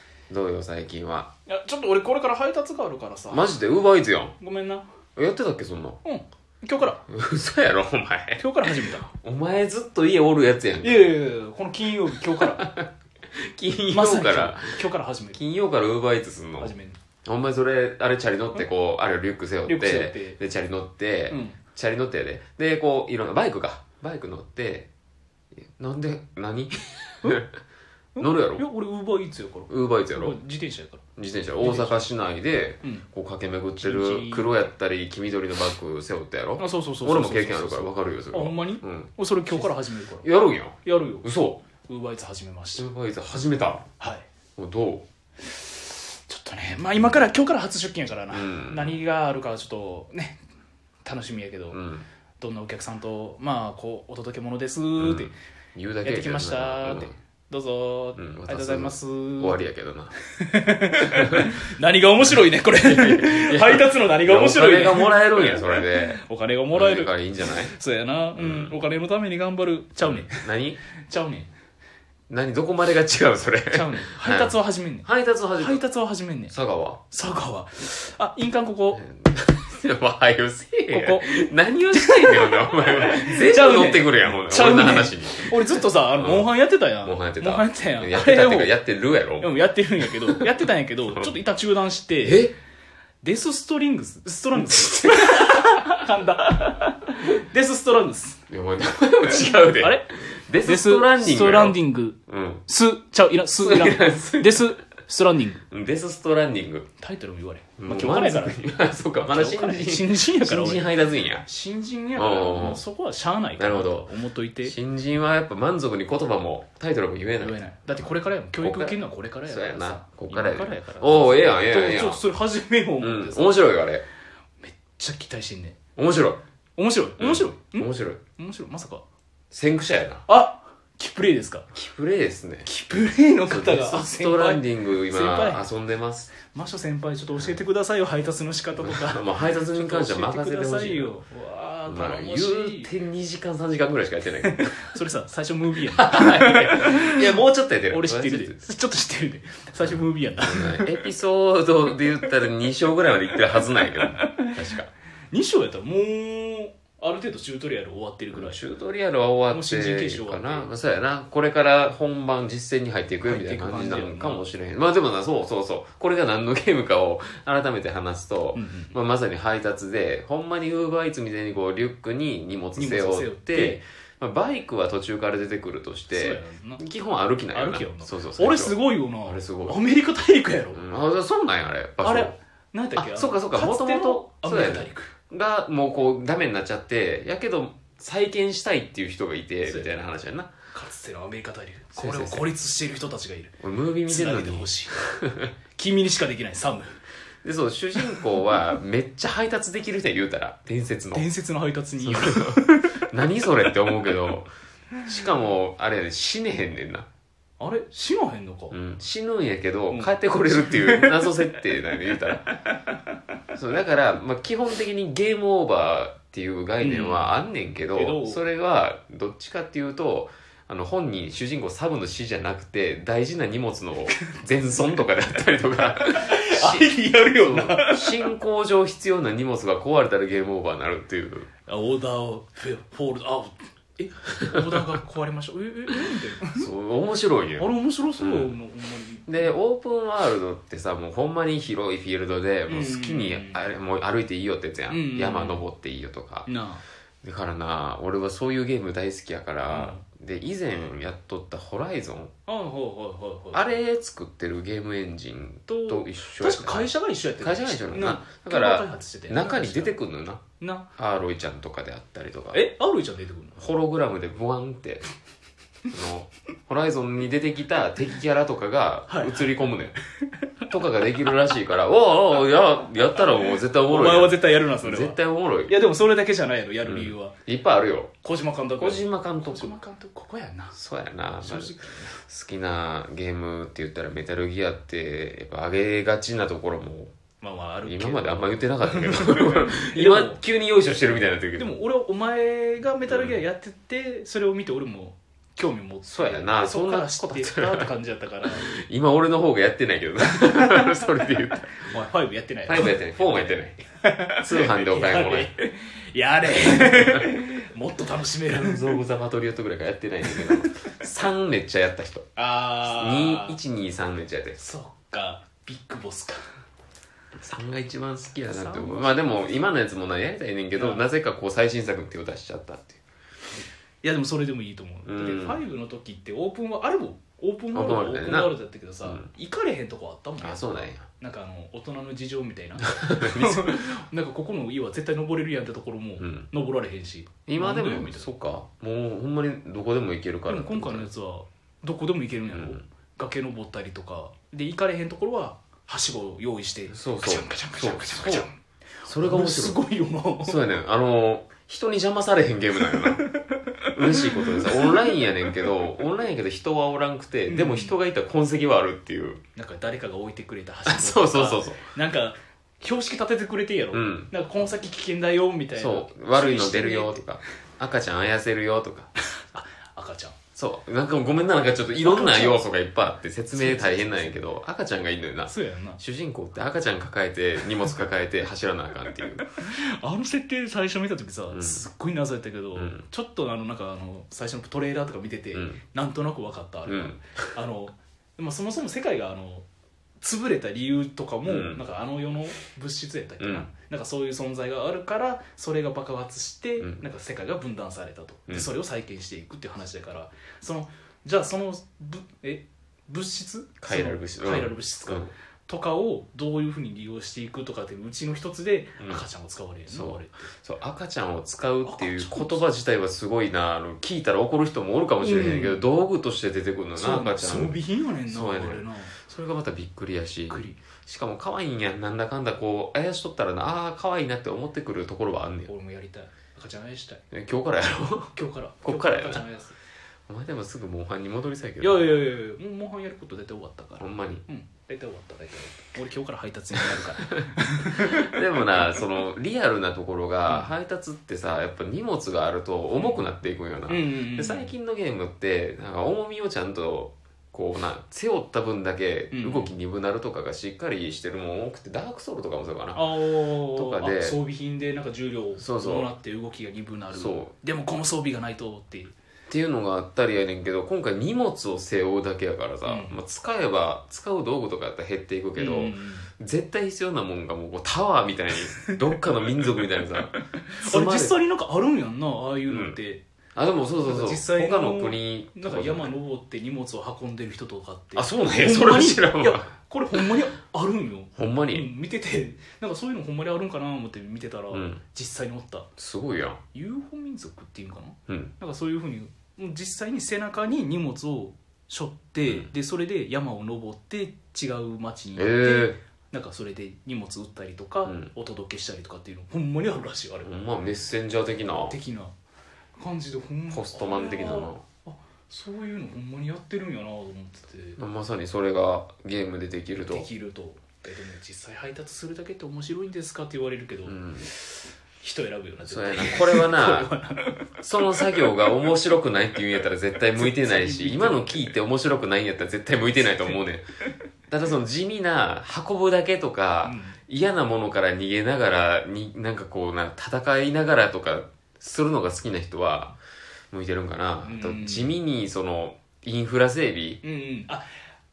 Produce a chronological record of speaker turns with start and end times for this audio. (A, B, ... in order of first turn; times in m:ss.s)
0:00.3-0:01.3 A
0:01.5-0:03.6 B
0:03.3-0:04.4 A
0:04.4-0:04.8 B
0:05.2-0:06.0 A
0:06.0-0:07.0 B
0:07.1-0:11.1 A
0:08.4-0:09.1 B
0:10.8-0:12.6 B
0:12.4-0:16.7 A
0:13.9-0:15.4 B
0:16.6-0:17.0 B
0:17.3-0:24.9 A
0:19.7-0:20.4 B
0:21.3-0:21.6 B
0:25.6-0:27.5 A
0:28.2-0:31.0 B
0:28.2-0:28.6 A
0:29.7-0:30.4 A
0:31.2-0:41.6 A
0:31.6-0:32.0 B
0:33.8-0:34.6 B
0:36.6-0:40.3 B
0:40.8-0:41.3 B
0:41.8-0:42.9 B
0:42.8-0:43.8 A
0:44.0-0:44.2 B
0:44.6-0:45.1 A
0:45.4-0:50.4 B
0:48.3-0:49.0 A
0:51.0-0:51.8 B
0:51.7-0:52.0 A
0:52.4-0:55.3 B
0:55.0-0:57.1 A
0:56.0-0:59.6 B
0:58.2-1:00.1 A
1:00.3-1:07.1 B
1:01.2-1:01.5 A
1:02.3-1:06.2 A
1:06.7-1:07.7 A
1:07.7-1:10.4 B
1:08.4-1:08.8 A
1:10.0-1:10.8 A
1:11.1-1:11.5 B
1:12.3-1:15.8 A
1:13.7-1:15.1 B
1:15.6-1:16.5 B
1:16.5-1:17.0 A
1:17.1-1:19.0 B
1:18.9-1:26.5 A
1:20.9-1:28.7 B
1:27.0-1:30.5 A
1:29.4-1:32.5 B
1:32.2-1:32.6 A
1:33.2-1:38.4 B
1:34.6-1:35.9 A
1:38.5-1:42.6 A
1:39.5-1:40.1 B
1:40.6-1:45.6 B
1:43.6-1:44.8 A
1:45.7-1:46.9 A
1:47.0-1:48.6 B
1:47.8-1:51.4 A
1:49.2-1:54.8 B
1:52.2-1:52.8 A
1:53.6-1:54.1 A
1:54.6-1:57.6 A
1:57.4-2:03.6 B
1:58.6-2:02.2 A
2:03.0-2:04.0 A
2:04.6-2:05.8 B
2:06.0-2:06.4 A
2:06.8-2:09.0 B
2:07.2-2:08.2 A
2:09.5-2:10.2 A
2:10.3-2:11.7 B
2:11.7-2:12.7 A
2:12.6-2:15.7 B
2:13.5-2:16.3 A
2:16.4-2:22.9 B
2:18.8-2:21.2 A
2:21.9-2:24.9 A
2:24.7-2:27.3 B
2:25.8-2:28.6 A
2:27.9-2:30.8 B
2:30.4-2:34.9 A
2:33.8-2:34.5 B
2:35.3-2:38.6 B
2:38.3-2:59.8 A
2:39.5-2:40.7 B
2:43.2-2:44.4 B
2:48.5-2:48.9 B
2:52.8-2:53.8 B
2:56.1-2:56.8 B
2:57.5-3:00.8 B
3:00.7-3:02.4 A
3:02.0-3:05.1 B
3:02.9-3:10.5 A
3:09.7-3:09.9 B
3:10.7-3:13.6 B
3:12.0-3:12.5 A
3:13.6-3:15.5 A
3:14.1-3:15.0 B
3:15.8-3:16.9 B
3:17.4-3:21.3 A
3:18.1-3:18.4 B
3:21.1-3:23.0 B
3:22.0-3:24.5 A
3:25.1-3:27.1 A
3:27.6-3:28.8 B
3:28.7-3:32.5 A
3:29.9-3:31.3 B
3:33.5-3:51.5 A
3:36.8-3:37.3 B
3:37.9-3:38.4 B
3:46.1-3:48.2 B
3:51.7-3:56.7 B
3:54.5-3:54.8 A
3:56.6-3:58.5 A
3:57.6-3:59.5 B
3:59.3-4:06.5 A
4:02.7-4:03.6 B
4:04.9-4:05.7 B
4:06.4-4:06.8 B
4:07.2-4:12.3 A
4:09.7-4:10.0 B
4:12.5-4:13.8 B
4:13.5-4:16.9 A
4:15.7-4:19.9 B
4:17.4-4:20.4 A
4:20.6-4:20.9 B
4:21.0-4:22.7 A
4:22.5-4:23.7 B
4:23.6-4:25.1 A
4:25.9-4:29.9 A
4:29.1-4:29.5 B
4:30.7-4:35.8 A
4:33.2-4:37.3 B
4:36.8-4:38.1 A
4:38.2-4:40.8 B
4:38.8-4:39.8 A
4:40.7-4:47.1 A
4:41.4-4:42.2 B
4:47.4-4:50.4 B
4:47.8-4:51.8 A
4:51.6-4:58.6 B
4:53.1-4:53.4 A
4:56.1-4:57.9 A
4:58.5-5:01.8 A
5:00.4-5:09.0 B
5:02.6-5:03.8 A
5:04.4-5:05.5 A
5:06.5-5:07.2 A
5:08.6-5:12.3 A
5:10.3-5:10.7 B
5:12.4-5:13.6 B
5:12.8-5:14.6 A
5:14.6-5:16.4 B
5:17.4-5:23.0 A
5:18.5-5:19.5 B
5:20.8-5:21.0 B
5:24.0-5:38.3 B
5:25.1-5:25.6 A
5:27.7-5:28.6 A
5:30.4-5:31.1 A
5:33.0-5:33.8 A
5:36.2-5:36.5 A
5:37.5-5:41.1 A
5:40.5-5:50.6 B
5:42.5-5:42.8 A
5:46.9-5:48.5 A
5:49.1-5:49.8 A
5:50.4-5:53.2 A
5:52.9-5:55.1 B
5:53.9-5:59.4 A
5:57.5-5:58.0 B
5:59.6-6:07.2 B
6:00.9-6:01.8 A
6:03.9-6:04.3 A
6:05.8-6:09.1 A
6:09.4-6:10.4 B
6:10.6-6:19.4 A
6:12.0-6:12.6 B
6:13.5-6:14.4 B
6:15.4-6:16.0 B
6:19.4-6:29.6 B
6:21.5-6:21.8 A
6:22.8-6:23.0 A
6:25.5-6:25.8 A
6:26.9-6:27.2 A
6:30.2-6:50.5 B
6:31.4-6:31.8 A
6:33.4-6:33.7 A
6:36.8-6:37.1 A
6:43.8-6:45.3 A
6:49.0-6:49.2 A
6:49.9-7:05.7 A
6:51.8-6:52.6 B
6:55.2-6:55.8 B
6:57.0-6:59.1 B
7:00.5-7:00.8 B
7:05.7-7:07.2 B
7:07.3-7:09.4 A
7:08.3-7:09.8 B
7:10.3-7:12.2 A
7:11.8-7:18.3 B
7:14.0-7:14.4 A
7:17.4-7:33.2 A
7:20.5-7:20.7 B
7:23.9-7:24.7 B
7:29.3-7:29.7 B
7:32.9-7:39.1 B
7:33.7-7:34.4 A
7:35.6-7:36.1 A
7:37.1-7:37.5 A
7:39.5-7:50.3 A
7:42.8-7:43.2 B
7:45.6-7:46.3 B
7:50.3-7:53.2 B
7:50.8-7:51.4 A
7:52.7-7:53.0 A
7:53.6-7:56.1 A
7:54.0-8:05.9 B
7:58.2-8:00.3 A
8:01.4-8:01.9 A
8:04.7-8:05.0 A
8:06.0-8:06.6 A
8:06.7-8:20.6 B
8:08.3-8:08.5 A
8:15.4-8:16.0 A
8:18.0-8:18.3 A
8:20.4-8:22.0 A
8:21.9-8:22.3 B
8:23.0-8:28.0 B
8:23.7-8:24.8 A
8:28.0-8:30.3 A
8:29.9-8:37.7 B
8:34.0-8:34.5 A
8:35.8-8:37.1 A
8:37.8-8:43.9 A
8:40.4-8:41.8 B
8:44.5-8:53.1 A
8:46.8-8:47.2 B
8:53.7-8:57.2 A
8:54.4-8:55.1 B
8:57.2-8:57.9 B